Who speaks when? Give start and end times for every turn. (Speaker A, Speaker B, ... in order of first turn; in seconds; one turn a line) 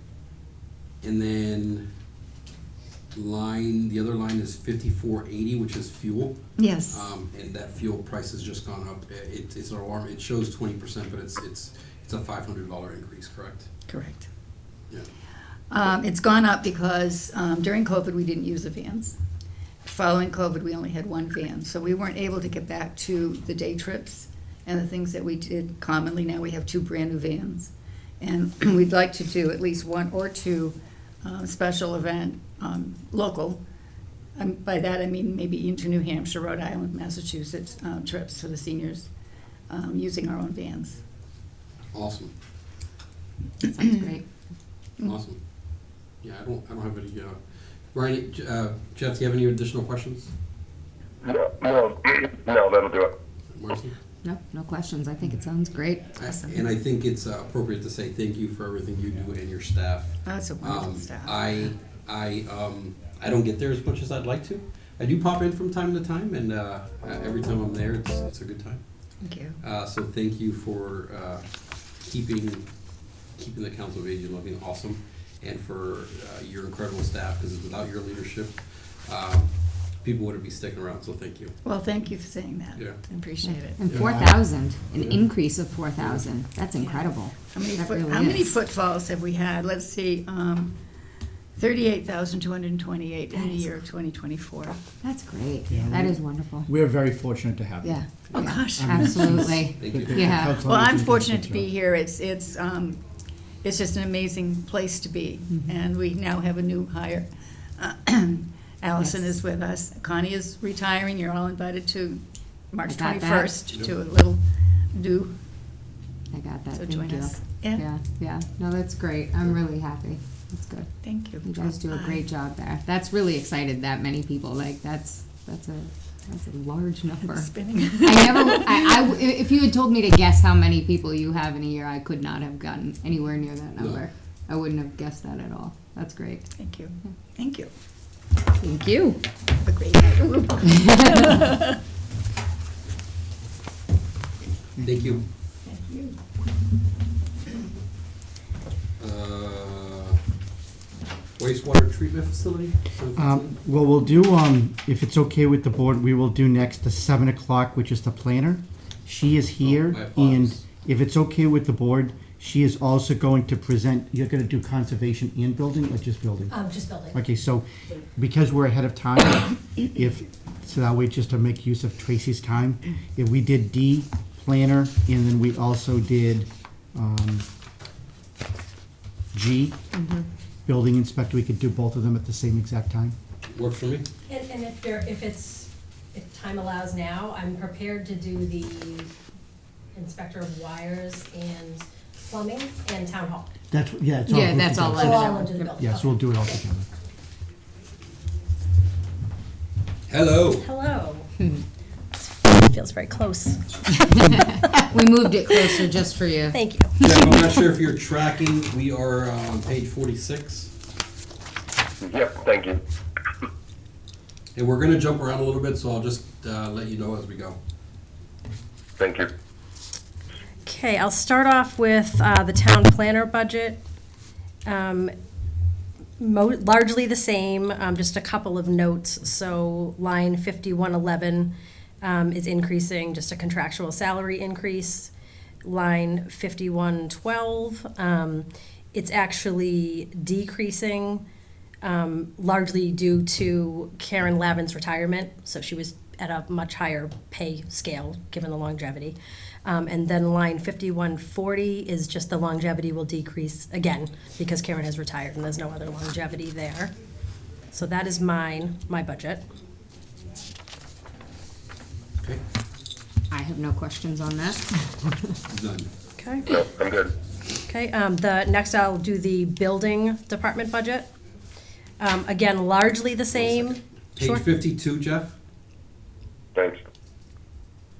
Speaker A: 1.0-1.9
Speaker A: 3.1-13.7
Speaker B: 6.6-7.1
Speaker B: 13.9-14.3
Speaker B: 15.7-19.1
Speaker B: 19.8-33.6
Speaker B: 34.4-39.1
Speaker B: 39.7-41.0
Speaker A: 41.9-42.3
Speaker C: 43.6-44.3
Speaker A: 45.0-45.4
Speaker A: 46.2-50.3
Speaker D: 51.2-53.1
Speaker A: 53.5-54.0
Speaker C: 54.2-56.3
Speaker A: 56.1-68.8
Speaker B: 60.2-61.4
Speaker B: 69.2-69.6
Speaker A: 69.6-72.7
Speaker A: 73.3-81.5
Speaker B: 81.6-83.8
Speaker C: 83.4-88.5
Speaker E: 83.8-84.4
Speaker A: 84.9-85.2
Speaker A: 86.0-86.2
Speaker B: 86.8-90.8
Speaker B: 91.5-94.8
Speaker C: 93.3-93.8
Speaker C: 95.0-96.7
Speaker E: 95.7-101.7
Speaker C: 97.8-100.6
Speaker B: 98.3-99.6
Speaker A: 99.8-100.5
Speaker B: 100.5-103.0
Speaker B: 103.6-115.3
Speaker C: 109.0-109.3
Speaker C: 112.8-113.5
Speaker C: 116.3-136.5
Speaker B: 116.7-117.8
Speaker B: 121.0-122.3
Speaker B: 127.3-128.8
Speaker A: 133.8-134.1
Speaker B: 136.6-137.7
Speaker C: 138.6-139.2
Speaker B: 139.6-141.6
Speaker E: 144.8-145.2
Speaker A: 144.8-145.2
Speaker B: 145.6-146.2
Speaker A: 149.0-150.2
Speaker A: 151.4-153.6
Speaker E: 153.2-177.4
Speaker A: 159.6-160.6
Speaker F: 166.5-167.1
Speaker E: 179.3-179.8
Speaker C: 179.9-180.2
Speaker E: 180.7-183.1
Speaker A: 183.5-184.1
Speaker F: 184.3-189.1
Speaker F: 189.9-193.5
Speaker E: 193.7-196.9
Speaker C: 194.2-195.8
Speaker F: 194.9-196.2
Speaker A: 200.1-200.7
Speaker F: 200.6-201.3
Speaker F: 202.1-204.2
Speaker C: 204.2-207.2
Speaker F: 206.5-206.9
Speaker A: 207.0-210.7
Speaker D: 212.0-212.8
Speaker A: 214.5-217.6
Speaker D: 219.0-219.3
Speaker F: 220.7-223.8
Speaker F: 224.7-225.1
Speaker F: 226.2-235.1
Speaker F: 235.6-241.2
Speaker F: 241.8-256.9
Speaker F: 257.7-259.4
Speaker C: 263.3-265.3
Speaker A: 265.5-265.9
Speaker F: 266.2-266.5
Speaker D: 266.5-267.1
Speaker F: 267.6-271.1
Speaker F: 272.0-274.6
Speaker A: 273.3-275.3